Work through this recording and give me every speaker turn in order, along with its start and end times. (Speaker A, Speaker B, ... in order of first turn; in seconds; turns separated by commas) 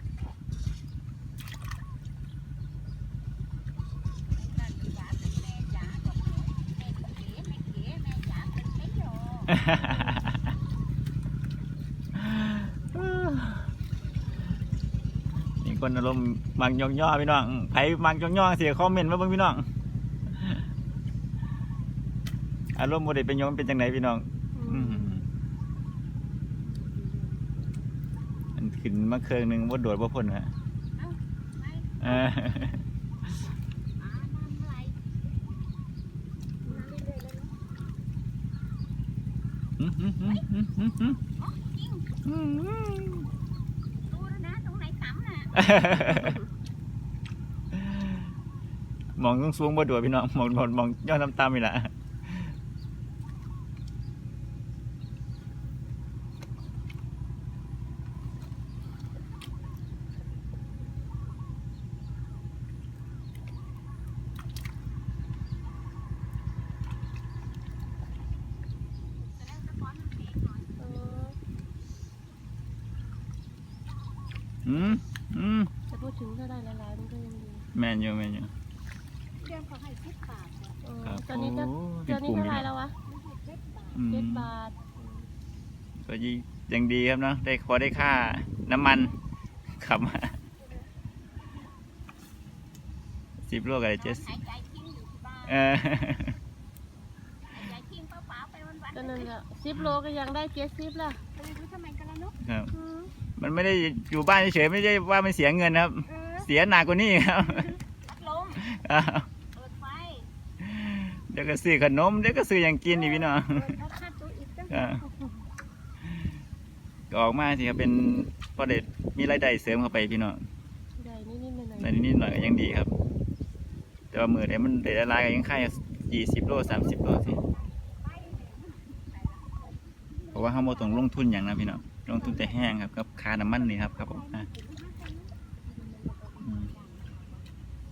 Speaker A: 4.3-9.6, Speaker B: 9.5-10.4, Speaker B: 12.1-13.7, Speaker B: 15.6-19.7, Speaker B: 20.3-20.6, Speaker B: 22.8-25.2, Speaker C: 24.5-25.2, Speaker C: 26.6-27.7, Speaker B: 28.6-30.5, Speaker A: 31.0-32.0, Speaker B: 32.0-32.8, Speaker A: 34.0-35.0, Speaker C: 36.6-36.9, Speaker D: 36.6-37.5, Speaker B: 39.8-41.2, Speaker A: 41.2-42.1, Speaker B: 42.2-43.3, Speaker A: 44.1-45.6, Speaker B: 45.5-46.4, Speaker B: 47.7-48.3, Speaker B: 49.2-52.5, Speaker A: 69.2-70.8, Speaker C: 70.8-71.4, Speaker B: 74.6-75.7, Speaker C: 75.9-77.7, Speaker B: 77.7-78.5, Speaker D: 79.4-80.8, Speaker C: 80.8-82.9, Speaker B: 81.0-82.7, Speaker D: 83.0-84.1, Speaker B: 83.9-84.5, Speaker C: 84.0-85.3, Speaker B: 86.0-89.2, Speaker B: 89.8-90.3, Speaker B: 93.5-94.3, Speaker A: 94.0-96.1, Speaker B: 95.5-96.3, Speaker A: 97.5-99.3, Speaker C: 98.9-101.2, Speaker D: 101.3-102.4, Speaker B: 102.4-102.7, Speaker C: 102.7-103.1, Speaker B: 103.4-107.8, Speaker D: 106.0-106.5, Speaker A: 108.0-108.6, Speaker B: 108.5-109.3, Speaker A: 109.6-110.3, Speaker B: 110.6-113.7, Speaker D: 112.9-114.8, Speaker B: 114.7-115.0, Speaker B: 117.1-120.4, Speaker C: 121.0-122.1, Speaker B: 121.8-122.9, Speaker B: 124.1-127.4, Speaker D: 126.7-129.0, Speaker A: 129.0-129.6, Speaker D: 129.7-131.2, Speaker B: 130.3-134.5, Speaker D: 132.1-132.6, Speaker D: 133.4-137.0, Speaker B: 136.4-136.7, Speaker A: 136.4-137.4